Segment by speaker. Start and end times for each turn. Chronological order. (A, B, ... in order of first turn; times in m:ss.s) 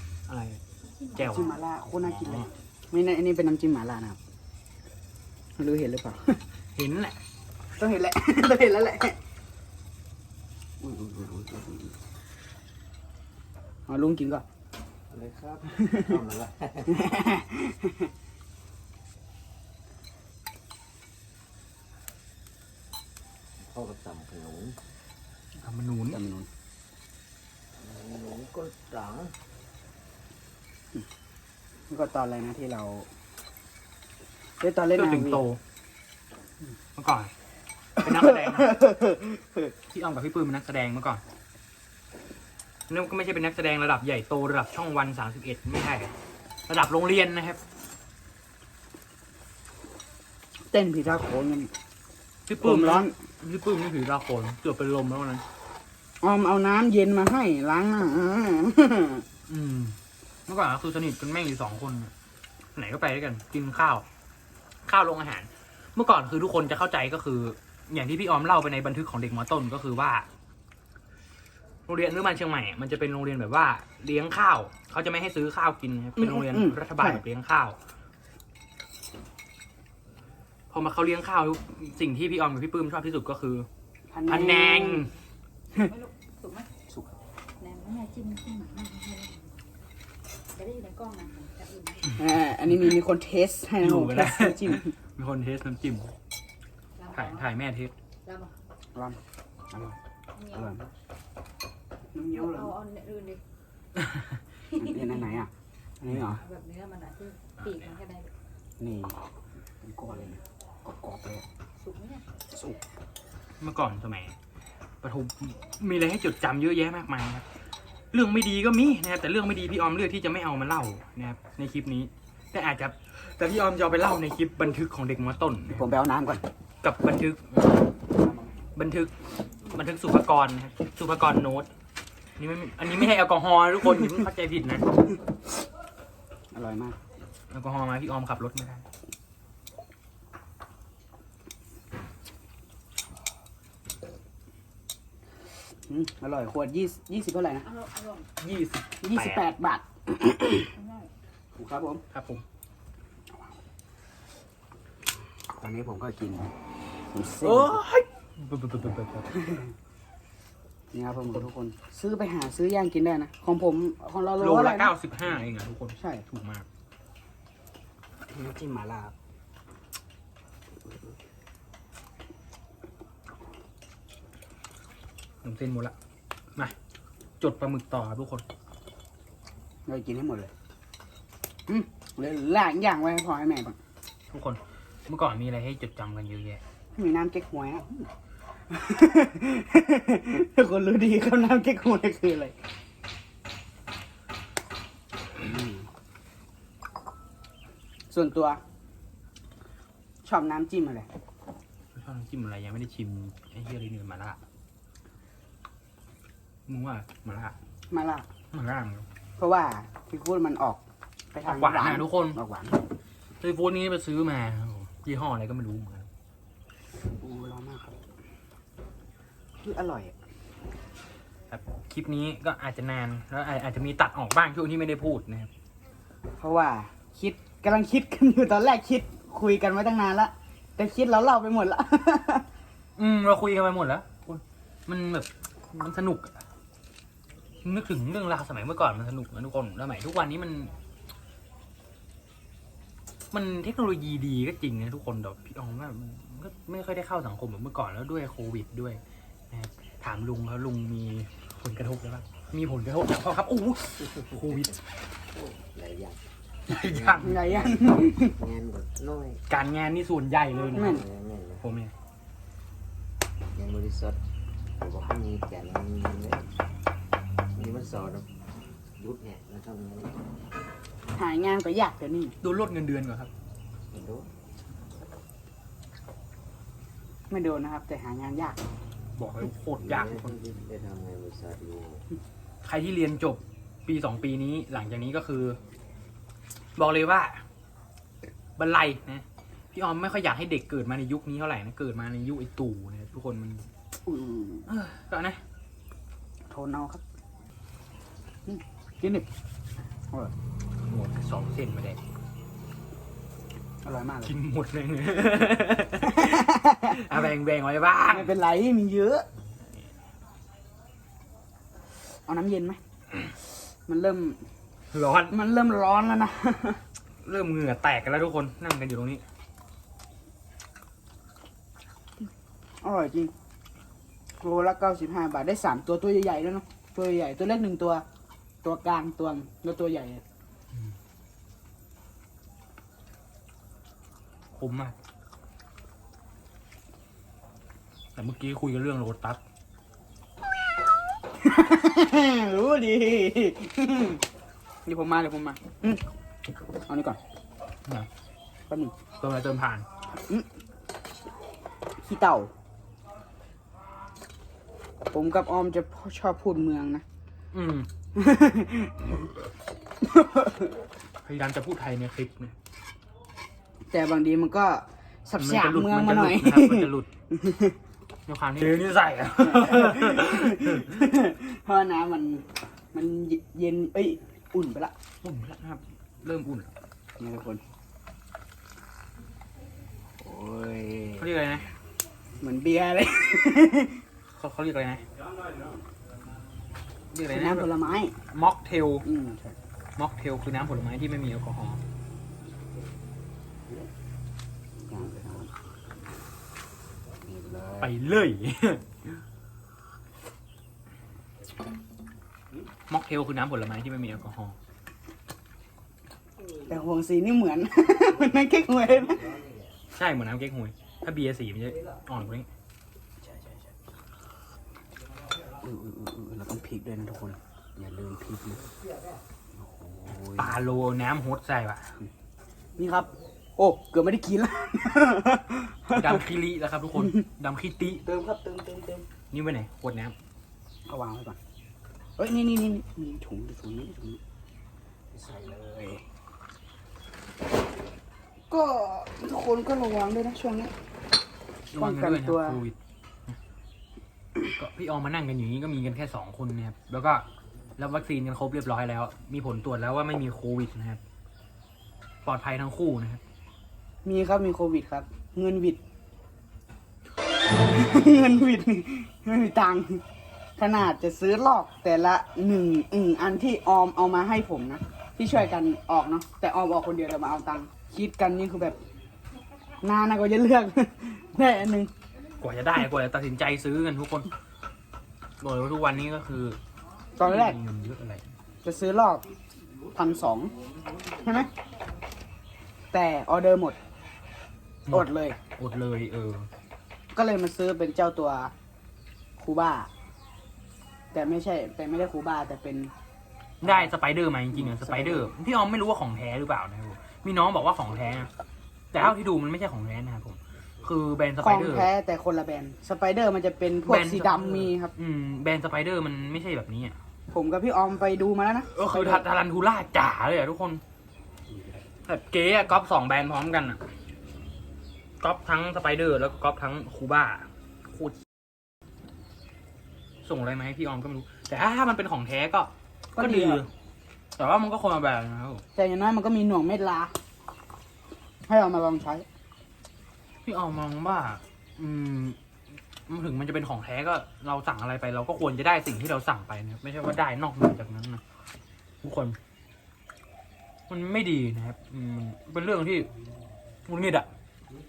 0:00.3-0:00.6 A
0:00.8-0:01.6 B
0:01.2-0:02.5 A
0:01.3-0:04.2 C
0:05.6-0:06.4 C
0:06.7-0:07.2 A
0:07.8-0:09.2 C
0:10.8-0:12.0 C
0:13.9-0:14.4 C
0:15.1-0:17.0 D
0:15.8-0:16.1 C
0:16.9-0:18.1 C
0:23.6-0:24.8 D
0:25.6-0:26.2 A
0:26.1-0:26.5 C
0:27.8-0:29.3 D
0:31.9-0:33.1 C
0:34.6-0:35.4 C
0:34.9-0:35.6 A
0:37.0-0:37.3 A
0:38.0-0:38.8 A
0:38.0-0:39.7 C
0:39.9-0:41.2 A
0:42.9-0:46.1 A
0:46.7-0:47.6 A
0:50.7-0:51.7 C
0:52.5-0:55.4 A
0:52.6-0:53.1 C
0:56.2-0:59.2 C
0:59.5-1:00.0 A
1:00.5-1:02.1 A
1:02.7-1:04.0 A
1:04.8-1:10.3 A
1:11.9-1:17.8 A
1:16.2-1:17.2 C
1:20.7-1:23.7 A
1:24.1-1:25.0 C
1:24.3-1:25.1 A
1:25.8-1:26.7 B
1:27.6-1:29.6 B
1:30.5-1:32.2 B
1:32.2-1:34.9 C
1:33.8-1:36.1 A
1:37.0-1:37.5 B
1:37.1-1:37.9 A
1:38.2-1:38.5 B
1:39.7-1:40.0 C
1:40.3-1:40.7 B
1:40.5-1:40.8 C
1:42.1-1:42.7 C
1:42.3-1:43.4 B
1:44.7-1:45.2 B
1:44.8-1:46.4 C
1:46.3-1:48.3 B
1:48.8-1:49.2 C
1:49.8-1:51.4 C
1:51.8-1:52.2 B
1:52.5-1:52.8 C
1:53.6-1:54.4 A
1:55.0-1:57.4 A
1:58.1-2:05.9 A
2:05.7-2:06.4 C
2:06.8-2:07.8 A
2:08.2-2:08.5 C
2:08.7-2:09.1 A
2:09.7-2:11.7 A
2:12.4-2:14.8 A
2:16.5-2:17.0 C
2:17.5-2:18.8 A
2:25.9-2:27.6 C
2:27.6-2:28.3 B
2:28.4-2:29.4 A
2:29.0-2:30.7 C
2:30.7-2:31.1 B
2:31.6-2:32.0 C
2:32.1-2:32.4 A
2:35.6-2:36.5 C
2:37.1-2:37.8 C
2:37.4-2:39.3 A
2:39.3-2:39.7 C
2:40.9-2:44.9 C
2:44.4-2:46.7 A
2:46.0-2:46.2 C
2:48.3-2:49.1 C
2:55.4-2:55.9 A
2:57.4-2:58.4 A
2:59.9-3:00.5 C
3:01.7-3:03.8 C
3:04.3-3:06.6 A
3:06.9-3:08.1 C
3:08.7-3:12.6 C
3:15.4-3:15.9 C
3:18.1-3:18.6 C
3:20.2-3:21.1 C
3:21.9-3:24.4 A
3:26.7-3:27.6 A
3:27.9-3:28.3 C
3:28.5-3:29.1 A
3:29.4-3:30.8 C
3:31.3-3:32.8 C
3:31.4-3:32.4 A
3:33.4-3:36.1 A
3:37.2-3:38.0 C
3:39.6-3:40.2 C
3:41.5-3:45.5 A
3:46.4-3:52.5 C
3:53.0-3:56.4 A
3:57.6-4:00.7 A
4:03.3-4:14.8 A
4:15.3-4:19.4 D
4:16.7-4:17.6 A
4:17.2-4:18.3 C
4:19.5-4:21.0 A
4:20.7-4:21.6 D
4:20.7-4:21.0 C
4:21.6-4:21.9 A
4:23.5-4:24.2 D
4:24.8-4:26.5 D
4:27.5-4:28.3 D
4:29.0-4:30.2 D
4:31.1-4:32.4 C
4:32.4-4:33.3 A
4:33.9-4:34.3 D
4:37.3-4:38.6 C
4:39.2-4:40.4 A
4:39.8-4:42.1 D
4:42.6-4:45.6 A
4:46.8-4:47.4 A
4:48.6-4:53.7 A
4:54.0-4:54.7 C
4:54.7-4:55.4 A
4:56.5-4:57.0 C
4:58.5-4:59.3 C
5:00.8-5:02.0 A
5:03.8-5:04.4 C
5:04.2-5:08.3 A
5:06.0-5:07.2 C
5:08.1-5:09.2 C
5:12.2-5:12.8 C
5:13.6-5:14.4 C
5:14.9-5:15.3 A
5:15.3-5:16.8 C
5:17.2-5:19.2 A
5:22.8-5:23.3 C
5:24.4-5:28.0 C
5:28.6-5:30.2 C
5:34.5-5:34.9 A
5:38.1-5:39.4 A
5:41.4-5:44.2 C
5:44.8-5:46.0 C
5:46.8-5:47.2 C
5:48.7-5:48.9 C
5:49.2-5:49.8 A
5:50.1-5:50.5 C
5:52.0-5:52.5 C
5:55.1-5:57.0 C
5:57.5-5:57.9 A
5:58.1-5:59.2 C
6:00.0-6:00.7 C
6:01.2-6:02.5 A
6:03.9-6:07.8 C
6:05.4-6:07.1 A
6:08.3-6:11.0 A
6:09.3-6:14.9 C
6:15.2-6:16.7 A
6:17.2-6:17.6 C
6:20.2-6:21.3 C
6:21.2-6:21.7 A
6:22.4-6:24.0 C
6:24.4-6:25.0 A
6:27.1-6:27.7 A
6:27.3-6:28.2 C
6:28.3-6:29.0 A
6:29.0-6:29.6 C
6:30.0-6:31.8 A
6:34.9-6:35.5 C
6:37.2-6:37.9 C
6:37.8-6:38.8 A
6:42.9-6:44.6 A
6:46.7-6:49.4 C
6:49.9-6:52.5 A
6:53.2-6:53.8 C
6:55.6-6:58.7 C
6:59.5-7:00.6 C
7:00.4-7:01.9 A
7:02.8-7:06.2 C
7:05.9-7:08.0 A
7:08.0-7:09.1 C
7:09.3-7:10.2 A
7:10.9-7:11.4 C
7:12.2-7:14.2 C
7:15.1-7:16.0 C
7:18.5-7:20.7 C
7:21.7-7:23.4 A
7:21.8-7:22.6 C
7:24.5-7:27.2 A
7:27.8-7:31.0 A
7:32.2-7:33.2 A
7:34.0-7:35.8 C
7:37.6-7:40.0 C
7:40.6-7:48.8 C
7:49.8-7:51.9 C
7:52.4-7:54.3 A
7:55.4-7:56.6 A
7:57.2-7:57.6 C
7:57.2-7:58.2 A
7:58.6-7:59.3 C
7:59.9-8:00.6 C
8:01.1-8:01.5 C
8:02.9-8:03.8 C
8:04.8-8:06.5 A
8:04.9-8:05.4 C
8:07.1-8:08.5 C
8:09.4-8:09.9 C
8:11.1-8:12.9 C
8:13.6-8:18.3 A
8:14.5-8:15.3 C
8:18.9-8:21.9 A
8:21.4-8:24.9 C
8:23.9-8:27.0 A
8:27.3-8:29.2 C
8:28.7-8:30.8 A
8:32.0-8:33.8 A
8:35.2-8:38.2 A
8:40.2-8:43.7 A
8:43.1-8:43.6 C
8:44.4-8:45.6 A
8:45.7-8:47.1 C
8:48.5-8:49.2 C
8:50.4-8:52.4 A
8:53.1-8:58.2 A
8:59.0-8:59.4 A
9:00.9-9:03.1 A
9:03.8-9:04.3 A